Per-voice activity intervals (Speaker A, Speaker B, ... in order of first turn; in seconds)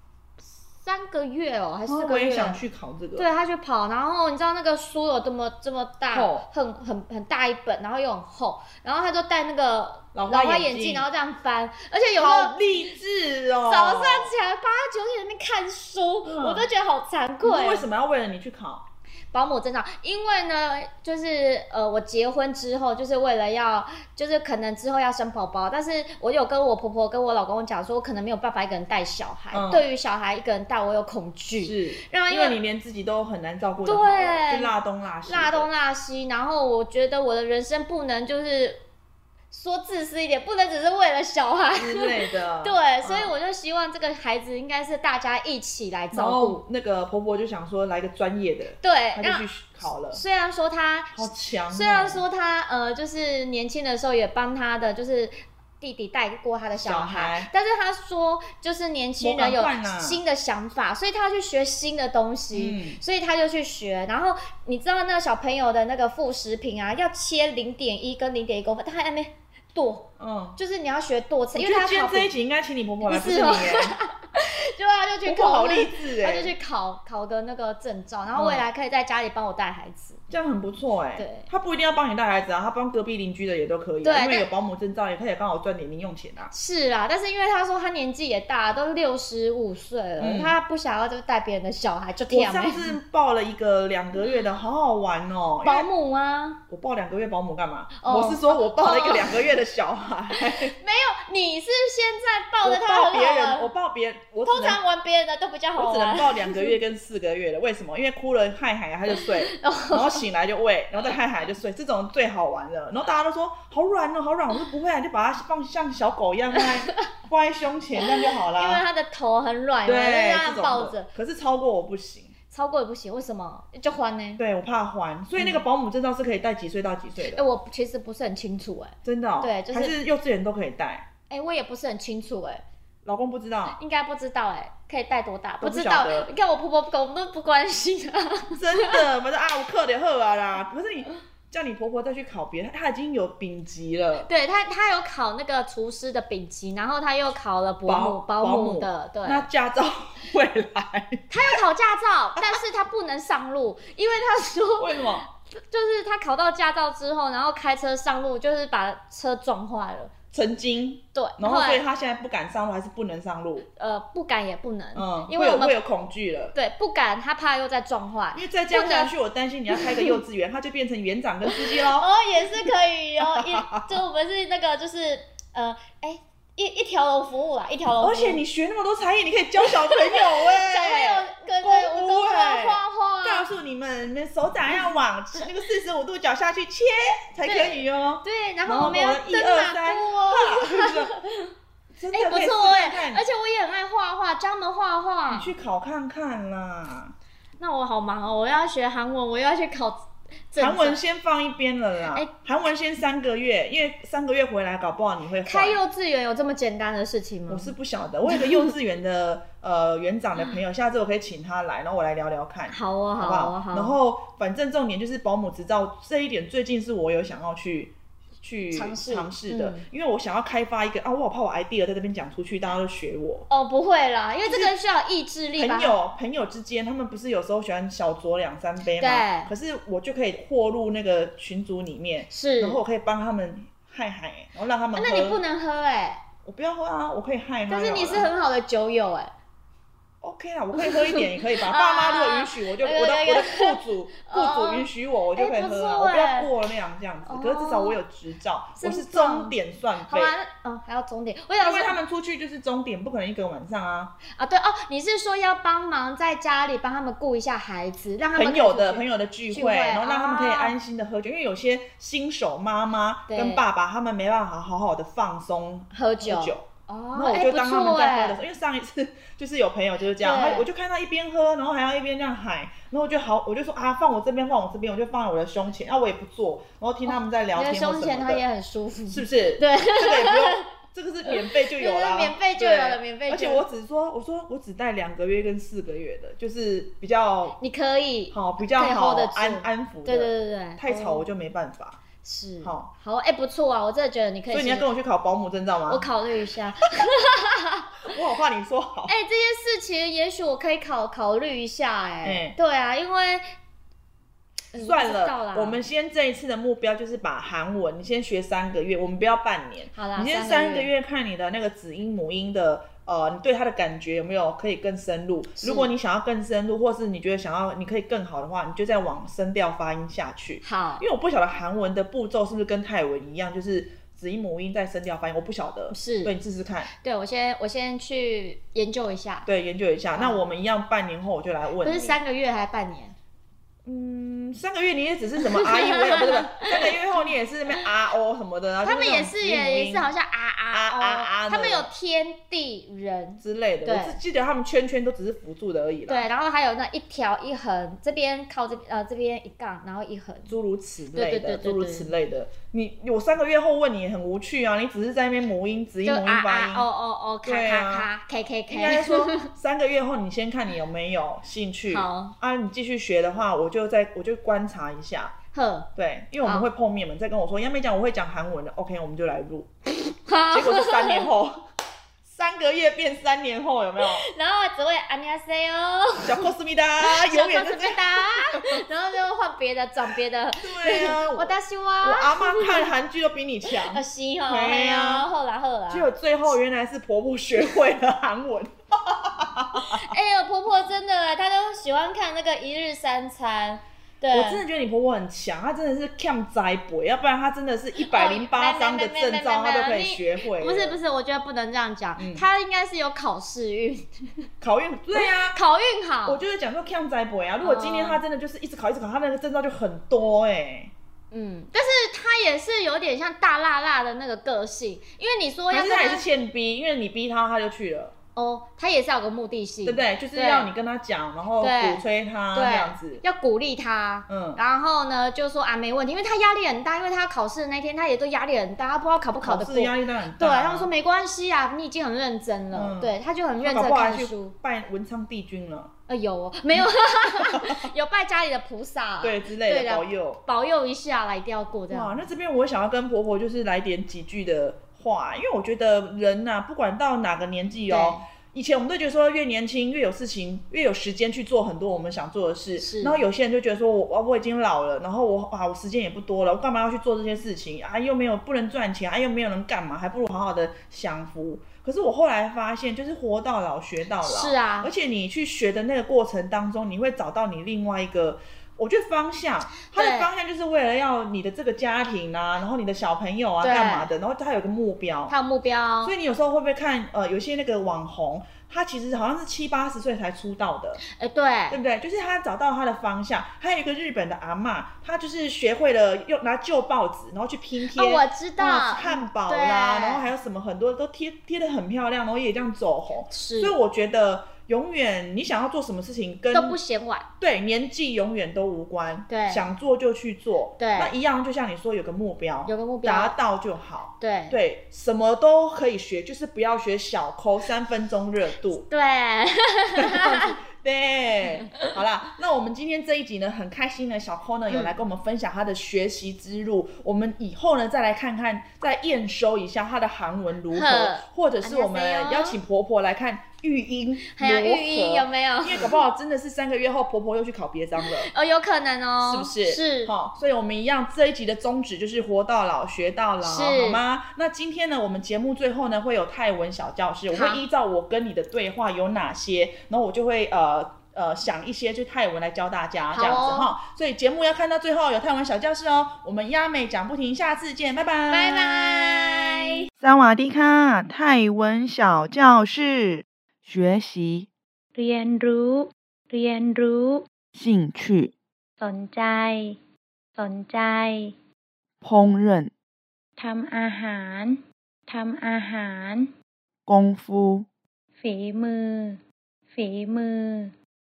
Speaker A: 0.7-2.6, 3.2-12.7, 13.7-17.9, 19.3-32.6, 33.9-34.7, 35.3-38.8, 39.5-46.6, 48.8-49.5, 50.1-72.3, 73.0-80.2, 81.2-81.5, 84.0-84.5, 86.5-92.8, 95.6-96.6, 98.0-99.5, 100.3-103.7, 104.5-106.8, 109.4-110.2, 116.6-117.1, 118.0-121.1, 122.5-124.4, 125.4-125.6, 127.2-129.9, 131.3-132.6, 133.8-139.0, 144.3-149.5, 151.3-160.1, 161.1-161.8, 163.8-165.8, 166.5-169.1, 169.7-170.2, 171.5-178.4, 179.6-183.5, 187.4-191.5, 192.1-195.5, 197.6-201.0, 205.4-207.7, 208.3-208.7, 212.7-214.0, 218.7-219.8, 223.5-226.0, 229.0-229.5, 232.3-232.8, 235.0-236.2, 237.7-239.3, 240.8-246.5, 247.3-248.0, 248.8-249.6, 250.1-252.0, 254.3-260.8, 263.3-263.6, 265.9-268.4, 270.2-270.7, 277.1-280.7, 281.3-283.6, 287.6-291.2, 292.2-294.9, 295.9-298.0, 299.1-303.4, 304.7-305.8, 309.9-310.9, 315.6-315.9, 320.6-321.1, 325.9-326.3, 326.9-329.5, 330.1-330.4, 331.8-333.2, 335.4-336.9, 338.8-344.2, 346.1-350.5, 351.1-352.1, 356.0-359.5, 361.9-362.4, 365.5-365.9, 370.2-371.3, 374.0-376.4, 377.0-382.9, 383.7-386.1, 389.8-394.6, 398.0-404.5, 405.2-406.4, 407.6-408.2, 411.3-416.2, 418.4-420.7, 421.6-434.6, 436.1-442.2, 447.9-448.2, 452.8-453.2, 464.2-464.9, 469.9-470.3, 473.6-474.1, 475.3-476.1, 481.0-481.8, 487.9-490.3, 493.3-493.8, 496.5-497.3, 499.3-499.7, 500.8-501.1, 502.7-503.4, 504.2-504.6, 508.9-510.6, 514.7-515.0, 520.7-522.6, 524.3-526.0, 528.0-530.1, 533.4-534.0, 537.3-537.6, 543.1-543.7, 548.3-549.8
Speaker B: 1.9-3.3, 6.1-6.5, 10.2-11.1, 12.2-14.3, 16.2-16.7, 17.4-18.9, 29.5-29.9, 31.6-35.7, 41.7-43.3, 46.1-50.2, 51.1-52.2, 56.8-57.5, 59.2-60.2, 62.5-63.0, 70.2-70.6, 71.5-74.0, 75.2-76.5, 78.3-78.6, 80.3-86.5, 90.2-90.6, 92.3-95.9, 96.7-100.8, 102.6-104.8, 105.8-118.8, 119.8-122.3, 124.4-127.4, 129.1-131.1, 133.1-133.8, 135.6-136.3, 138.6-144.3, 147.9-151.6, 154.8-155.3, 160.3-163.7, 165.0-166.5, 168.3-172.1, 173.2-174.0, 178.0-191.1, 191.9-193.2, 195.3-197.2, 200.6-205.8, 207.5-223.5, 224.4-224.7, 225.6-235.4, 236.4-238.3, 240.2-250.3, 251.6-254.2, 258.4-278.4, 279.1-287.6, 288.3-292.0, 292.6-292.9, 294.5-296.1, 298.1-299.1, 302.2-302.6, 304.8-326.9, 329.5-332.2, 333.9-340.1, 340.7-341.9, 343.4-346.3, 350.5-356.9, 357.4-358.1, 358.7-365.3, 366.0-369.7, 370.5-371.6, 372.2-374.3, 376.2-378.8, 380.6-385.3, 385.9-390.0, 394.3-401.0, 402.2-402.4, 404.6-405.6, 406.3-410.9, 415.7-418.1, 419.9-423.2, 424.3-424.6, 429.4-430.9, 432.7-435.9, 436.7-437.9, 439.2-440.4, 441.9-475.3, 476.0-481.0, 481.7-496.8, 497.4-508.9, 509.9-528.3, 529.2-549.4, 550.0-554.5, 557.5-558.3, 562.0-562.7, 566.9-567.7
Speaker C: 555.0-557.3, 558.8-559.8, 560.4-561.3, 563.4-566.3, 568.2-569.2, 569.7-570.7